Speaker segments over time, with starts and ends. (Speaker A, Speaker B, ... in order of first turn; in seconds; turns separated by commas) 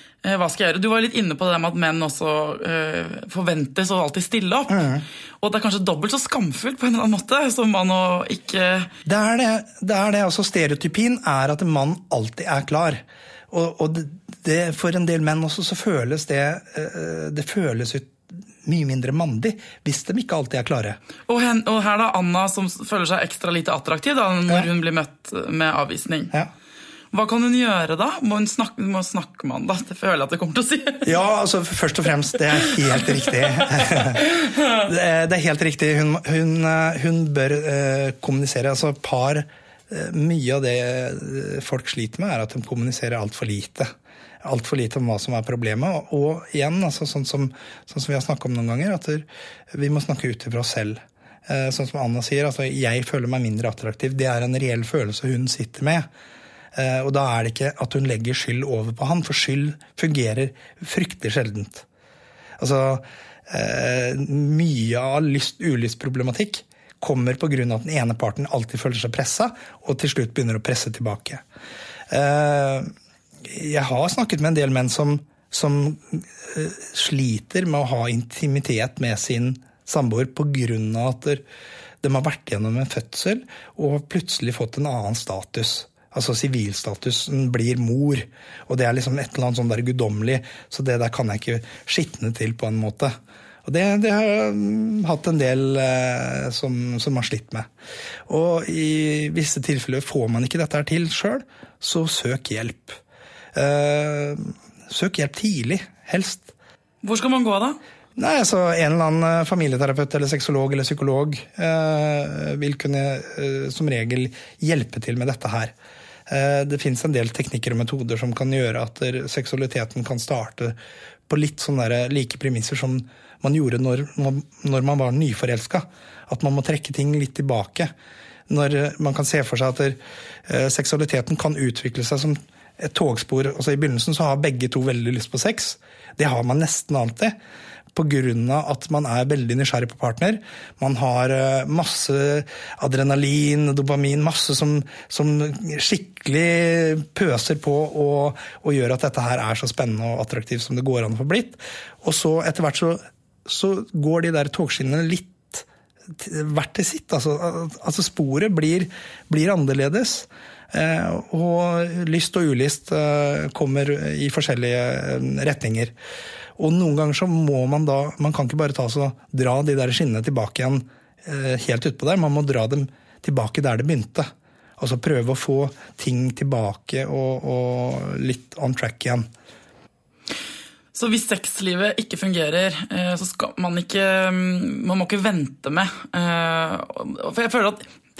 Speaker A: 0.2-8.9, Speaker B: 4.7-5.0, Speaker B: 9.0-21.0, Speaker A: 21.3-26.3, Speaker A: 27.1-31.1, Speaker B: 31.0-43.9, Speaker A: 33.7-34.8, Speaker B: 44.4-56.1, Speaker B: 56.7-61.9, Speaker B: 62.6-71.4, Speaker B: 72.1-72.9, Speaker B: 73.4-81.4, Speaker B: 82.0-93.1, Speaker B: 93.6-97.7, Speaker B: 98.3-103.0, Speaker B: 103.5-106.5, Speaker A: 107.0-107.8, Speaker B: 108.2-115.7, Speaker B: 116.3-120.8, Speaker B: 121.3-127.9, Speaker B: 128.5-137.3, Speaker B: 137.9-165.9, Speaker B: 166.6-179.3, Speaker A: 180.9-187.8